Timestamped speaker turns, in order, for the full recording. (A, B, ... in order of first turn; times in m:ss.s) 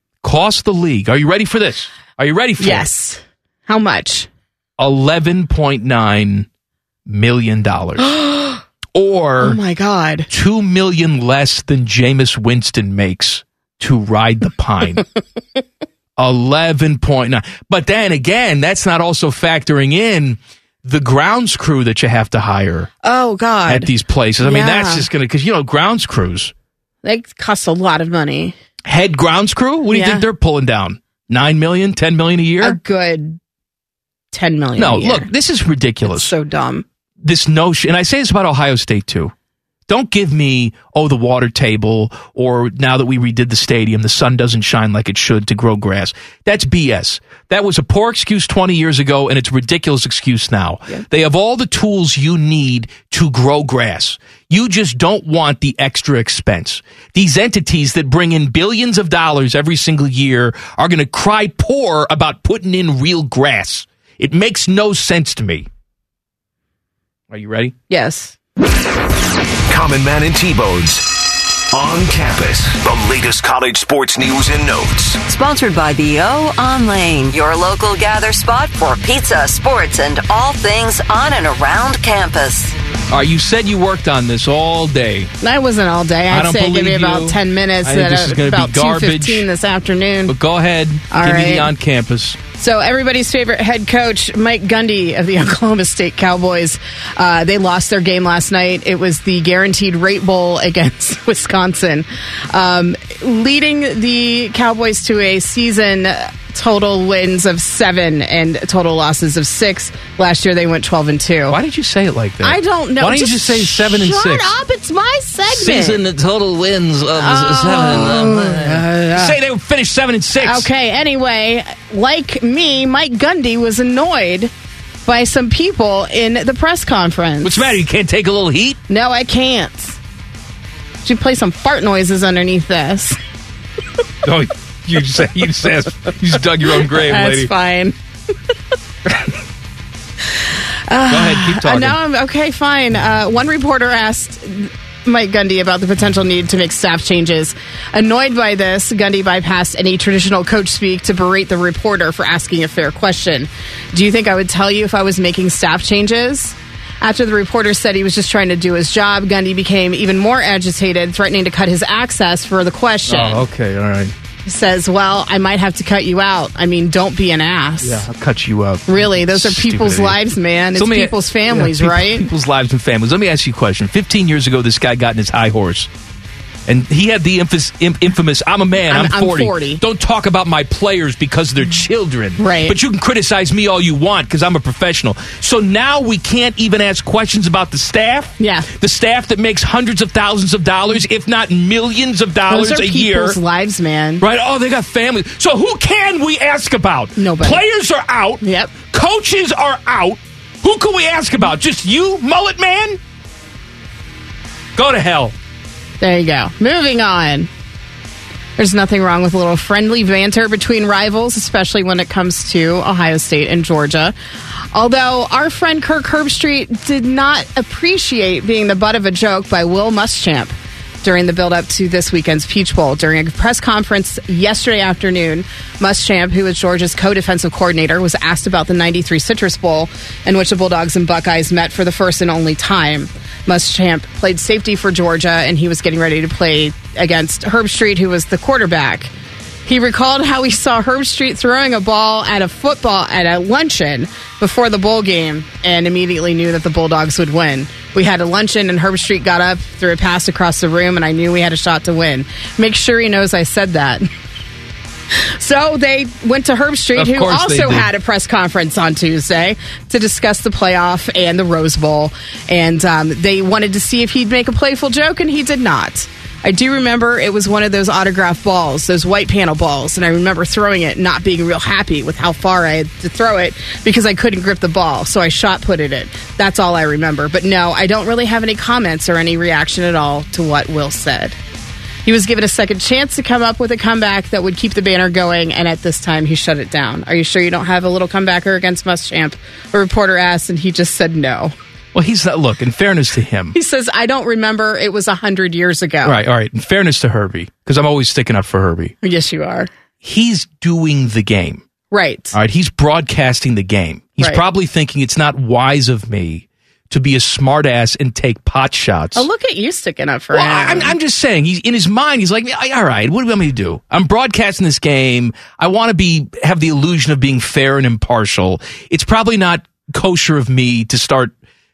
0:00.2-0:02.9 A
0:02.6-0:04.3 B
0:04.8-0:06.5 A
0:07.1-0:08.0 A
0:08.0-0:08.6 B
0:08.9-0:09.6 A
0:09.4-0:10.3 B
0:10.3-0:15.0 A
0:16.2-0:22.9 A
0:23.0-0:23.9 B
0:23.7-0:26.5 A
0:24.4-0:25.1 B
0:27.0-0:28.6 B
0:28.9-0:32.8 A
0:29.9-0:30.2 B
0:32.6-0:33.4 B
0:34.3-0:35.3 B
0:34.8-0:36.3 A
0:36.0-0:36.8 B
0:37.2-0:39.3 A
0:39.9-1:05.7 A
1:07.3-1:07.7 A
1:07.9-1:08.4 B
1:09.7-1:15.2 C
1:15.3-1:22.8 D
1:23.1-1:25.3 A
1:25.4-1:30.4 B
1:26.3-1:29.5 A
1:30.3-1:32.4 A
1:31.1-1:31.7 B
1:32.6-1:51.6 B
1:51.5-1:54.5 A
1:52.4-1:56.0 B
1:55.5-2:00.7 A
1:57.2-1:59.4 B
2:00.4-2:04.5 B
2:05.0-2:07.8 B
2:07.4-2:08.8 A
2:08.9-2:10.0 B
2:11.0-2:13.2 B
2:14.2-2:17.5 A
2:16.9-2:18.0 B
2:20.9-2:43.4 B
2:21.1-2:22.0 A
2:43.1-2:44.1 A
2:44.5-2:48.1 B
2:47.8-2:50.2 A
2:48.9-2:52.3 B
2:50.8-2:55.9 A
2:56.7-3:13.4 A
2:58.9-2:59.8 B
3:02.4-3:02.8 B
3:08.4-3:08.7 B
3:12.5-3:14.2 B
3:14.2-3:23.0 A
3:17.2-3:17.6 B
3:18.4-3:18.7 B
3:24.8-3:25.4 A
3:26.0-3:27.5 B
3:28.6-3:34.2 B
3:34.7-3:59.1 B
3:59.7-4:14.1 B
4:15.1-4:41.4 B
4:17.0-4:17.9 A
4:42.0-4:51.5 B
4:51.9-4:53.6 A
4:53.5-4:56.2 B
4:56.0-4:59.0 A
4:59.0-4:59.7 B
5:00.0-5:01.6 A
5:01.9-5:02.4 B
5:02.3-5:09.3 A
5:09.2-5:10.9 B
5:10.3-5:21.3 A